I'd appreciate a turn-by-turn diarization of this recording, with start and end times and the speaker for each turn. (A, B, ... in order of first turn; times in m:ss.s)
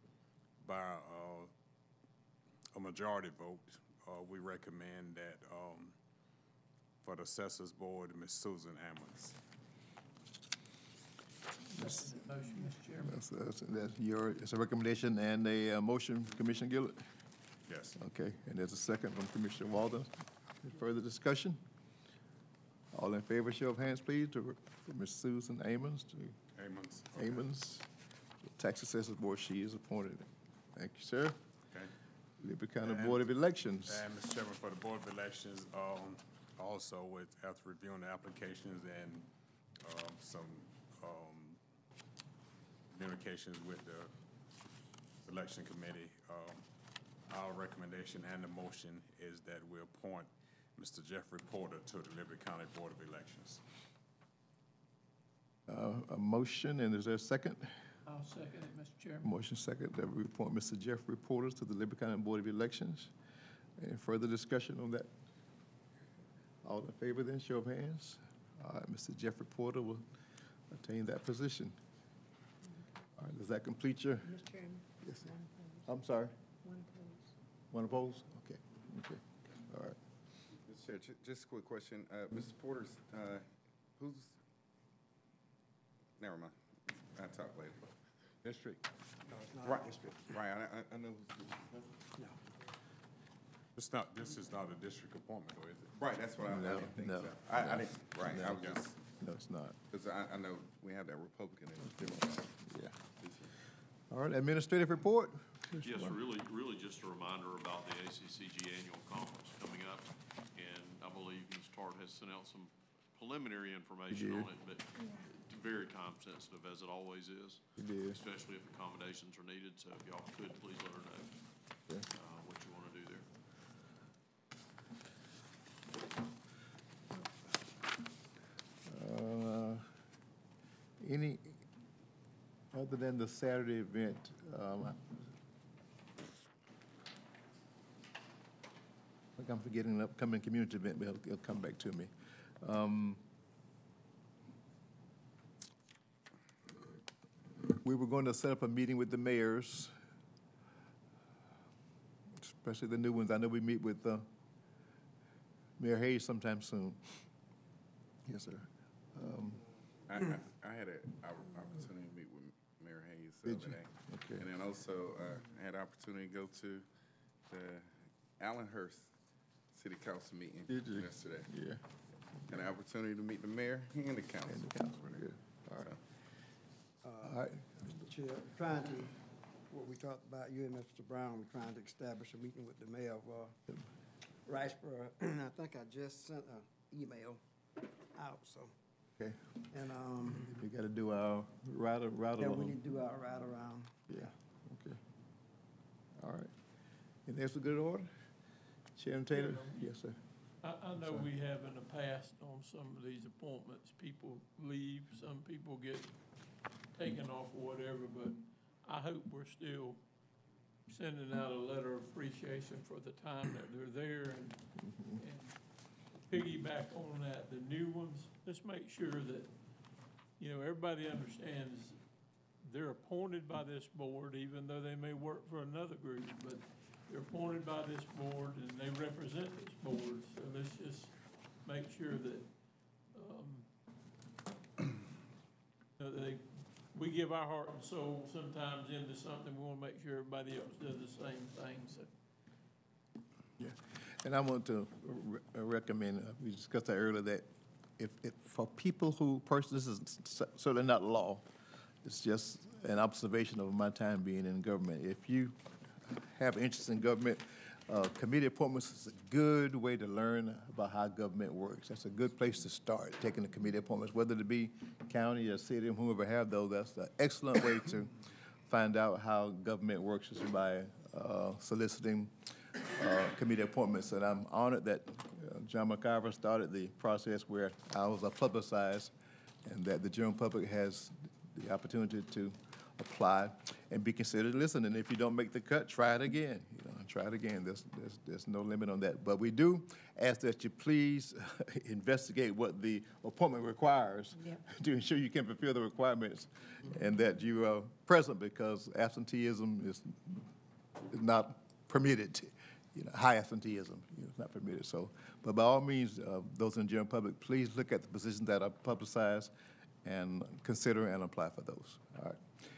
0:00.6-0:01.5 A
0:02.8-0:06.0 A
0:07.0-0:09.4 A
0:11.7-0:13.2 B
0:13.0-0:17.0 C
0:17.7-0:18.0 A
0:18.0-0:21.6 C
0:22.9-0:26.3 C
0:26.5-0:27.4 A
0:27.2-0:27.8 C
0:28.6-0:31.4 C
0:32.4-0:34.0 C
0:32.8-0:33.3 A
0:33.9-0:39.3 A
0:39.8-0:41.6 A
0:42.9-0:44.1 A
0:45.2-0:46.6 A
0:47.3-0:53.6 A
0:55.7-0:57.7 C
0:58.1-0:59.4 B
0:59.2-1:03.1 C
1:03.8-1:05.1 C
1:06.6-1:10.1 C
1:10.7-1:11.8 C
1:13.2-1:14.4 C
1:14.3-1:15.9 D
1:15.0-1:15.3 C
1:15.8-1:16.4 C
1:16.6-1:17.3 D
1:17.7-1:20.0 C
1:20.7-1:23.5 E
1:24.0-1:24.4 E
1:26.2-1:26.6 E
1:27.1-1:27.9 E
1:28.4-1:28.8 A
1:29.3-1:30.2 F
1:29.6-1:31.9 E
1:33.8-1:35.9 A
1:36.0-1:38.9 E
1:36.4-1:39.8 C
1:39.9-1:42.5 E
1:42.6-1:42.9 C
1:43.2-1:43.5 E
1:44.1-1:46.2 C
1:45.8-2:01.4 G
1:54.1-1:54.5 C
1:57.8-1:58.2 C
2:02.1-2:03.2 G
2:08.9-2:09.9 C
2:11.0-2:11.6 C
2:12.7-2:15.3 C
2:19.4-2:22.1 C
2:22.6-2:23.2 C
2:27.7-2:29.9 C
2:32.4-2:34.3 C
2:35.8-2:37.2 C
2:38.3-2:39.6 C
2:40.1-2:46.9 E
2:43.4-2:44.5 C
2:47.5-2:49.1 E
2:49.7-2:51.5 E
2:50.7-2:51.8 C
2:52.5-2:55.2 E
2:54.5-2:56.0 C
2:57.0-2:59.2 F
2:57.2-2:58.0 C
2:59.7-3:03.6 F
3:04.5-3:07.4 F
3:08.1-3:08.7 F
3:09.7-3:10.6 F
3:10.4-3:12.8 C
3:12.4-3:14.3 F
3:14.1-3:15.0 C
3:16.2-3:16.5 C
3:17.3-3:18.1 C
3:19.0-3:20.2 C
3:19.4-3:19.7 B
3:20.6-3:26.1 B
3:27.0-3:30.0 B
3:30.9-3:34.6 B
3:35.2-3:35.6 B
3:36.3-3:39.5 B
3:40.4-3:42.0 B
3:42.7-3:52.5 B
3:53.1-3:53.7 B
3:56.0-4:02.1 B
4:03.6-4:07.5 C
4:08.0-4:11.4 C
4:12.0-4:39.1 C
4:39.6-5:00.5 C
4:54.4-4:54.6 D
5:01.1-5:09.5 C
5:10.0-5:12.4 C